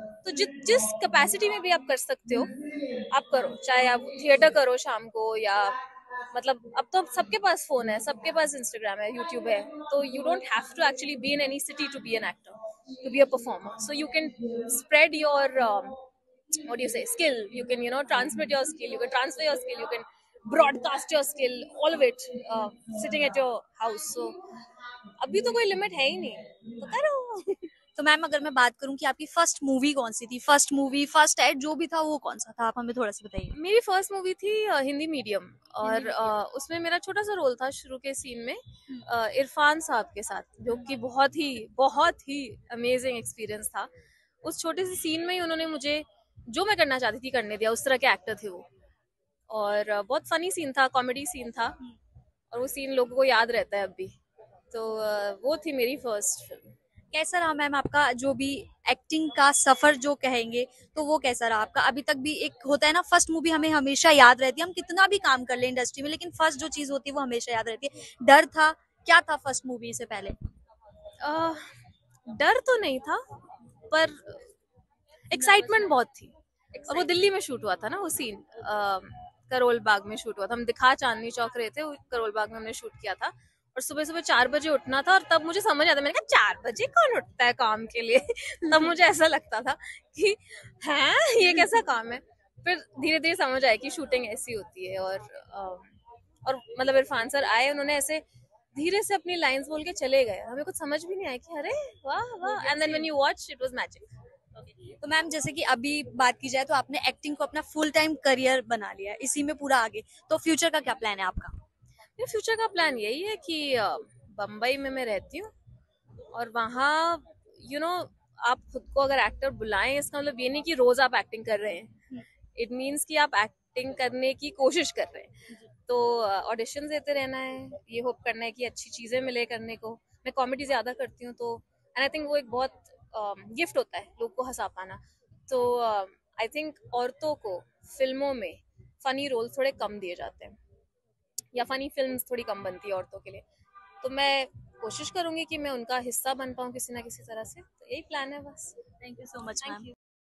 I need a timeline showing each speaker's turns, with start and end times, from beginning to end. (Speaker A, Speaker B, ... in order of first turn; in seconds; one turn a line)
Speaker A: 0.2-5.8
Speaker A: 6.3-16.0
Speaker A: 16.7-24.4
Speaker A: 25.2-27.7
Speaker B: 28.0-33.5
Speaker A: 33.5-43.9
Speaker B: 35.8-36.2
Speaker A: 44.4-48.6
Speaker A: 49.5-51.8
Speaker A: 52.5-54.1
Speaker A: 54.7-56.7
Speaker B: 57.1-70.3
Speaker A: 71.2-71.6
Speaker A: 72.3-73.2
Speaker A: 73.9-74.4
Speaker A: 75.3-95.9
Speaker B: 75.4-75.7
Speaker A: 96.4-98.2
Speaker A: 98.7-104.1
Speaker B: 105.0-111.5
Speaker A: 112.2-115.5
Speaker A: 116.3-122.0
Speaker A: 122.5-140.6
Speaker A: 141.5-143.4
Speaker A: 144.0-148.8
Speaker B: 149.0-149.9